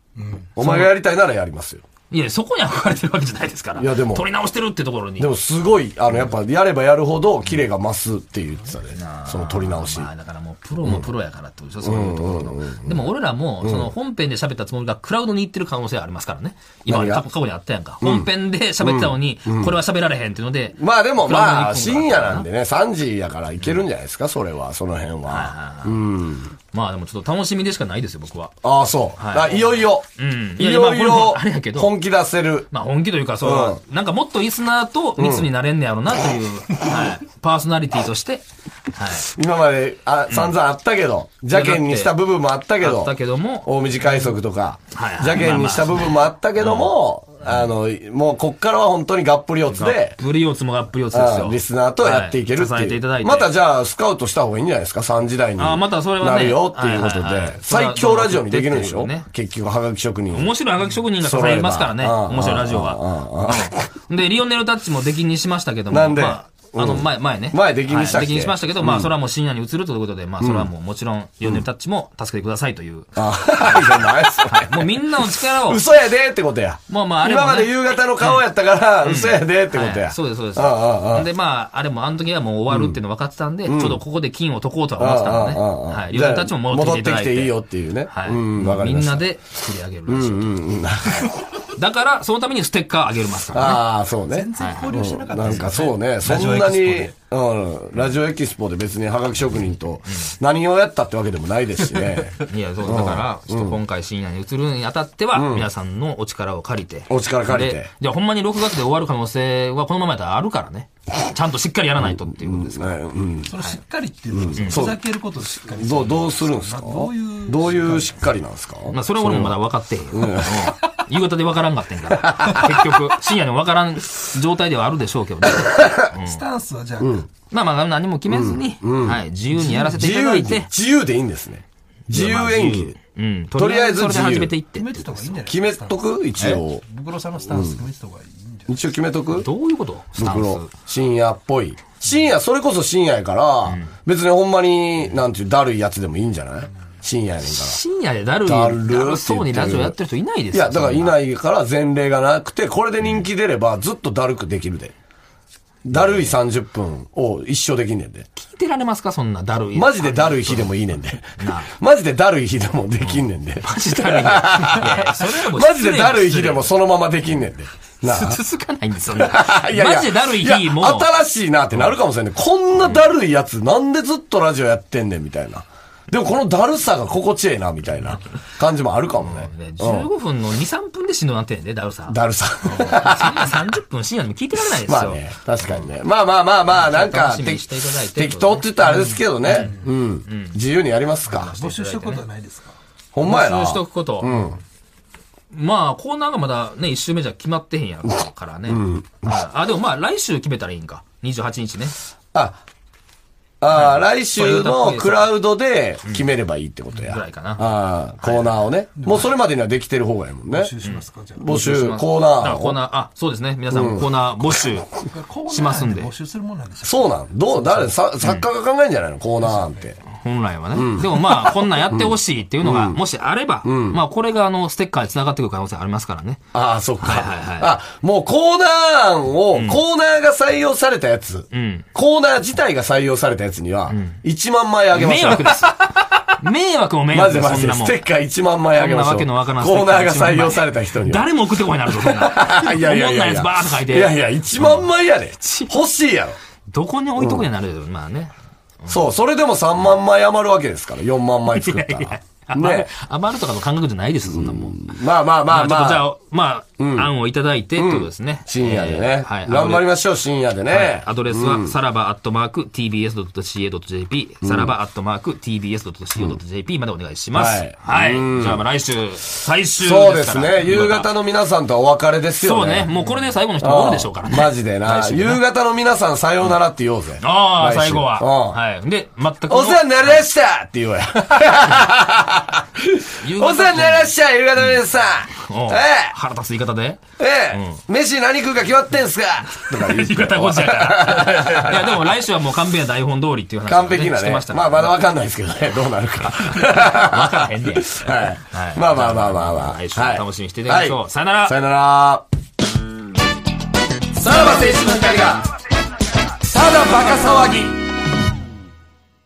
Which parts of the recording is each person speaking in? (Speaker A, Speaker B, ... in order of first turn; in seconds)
Speaker A: 0.2-0.5, 94.3-97.1, 113.5-118.2, 126.1-127.3, 134.7-138.8, 188.8-189.9, 191.4-192.8, 209.0-209.3, 210.5-211.5, 215.0-217.9, 219.4-219.8
Speaker B: 0.6-1.8, 3.8-4.3, 5.2-10.1, 10.8-11.1, 11.8-13.0, 13.6-13.9, 16.9-17.3, 18.0-18.3, 18.8-19.8, 20.8-26.5, 28.6-32.7, 33.4-33.8, 35.2-35.5, 39.3-50.2, 51.1-60.5, 61.2-63.8, 65.9-69.1, 70.4-70.7, 73.2-81.3, 82.7-83.0, 83.7-84.0, 85.0-89.3, 90.1-91.4, 93.5-103.8, 105.3-105.7, 107.1-107.9, 112.0-113.6, 114.3-120.8, 122.2-122.8, 125.5-126.1, 127.0-127.3, 128.3-132.9, 133.6-134.6, 135.4-136.8, 137.5-137.8, 138.7-139.5, 140.2-147.8, 148.4-150.0, 150.5-154.9, 155.9-158.3, 159.7-168.4, 169.1-180.1, 182.1-183.6, 184.8-191.5, 193.1-194.6, 198.7-199.5, 202.3-202.6, 203.6-210.7, 211.4-212.8, 213.7-214.6, 216.8-220.0, 220.7-223.0, 223.6-224.0, 226.5-235.8, 237.1-241.3, 241.8-246.4, 247.2-247.4, 248.9-252.9, 254.2-256.1, 256.8-257.1, 257.8-261.8, 264.4-264.7, 267.3-268.6, 269.8-272.9, 273.6-278.6, 279.5-286.1, 287.2-292.1, 293.7-302.2, 304.1-305.5, 306.4-307.8
Speaker C: 0.6-0.9, 2.1-5.3, 8.9-22.5, 25.3-26.0, 26.7-28.6, 29.2-31.9, 32.7-39.3, 40.3-40.6, 41.5-42.2, 42.8-44.4, 44.9-47.6, 49.7-53.5, 55.6-59.3, 60.3-75.8, 76.9-78.4, 79.0-90.6, 91.7-93.9, 94.6-95.7, 100.1-100.3, 102.5-113.0, 114.6-114.8, 118.9-126.4, 127.5-130.7, 132.1-135.3, 139.3-140.7, 143.7-143.9, 147.4-151.2, 155.9-156.3, 158.4-160.7, 161.4-161.7, 163.0-166.7, 168.0-171.1, 179.2-185.9, 186.7-188.8, 189.4-189.7, 190.3-190.6, 191.3-192.3, 193.2-194.4, 195.5-202.0, 203.7-205.4, 206.9-208.7, 210.8-214.9, 215.5-216.1, 220.1-226.4, 227.0-227.7, 229.5-229.8, 231.5-231.9, 233.9-234.2, 234.9-238.0, 238.7-244.9, 245.4-245.7, 246.7-249.0, 251.6-259.9, 260.7-271.1, 272.4-275.4, 277.2-280.2, 283.2-284.8, 285.4-287.8, 289.5-294.9, 296.5-301.6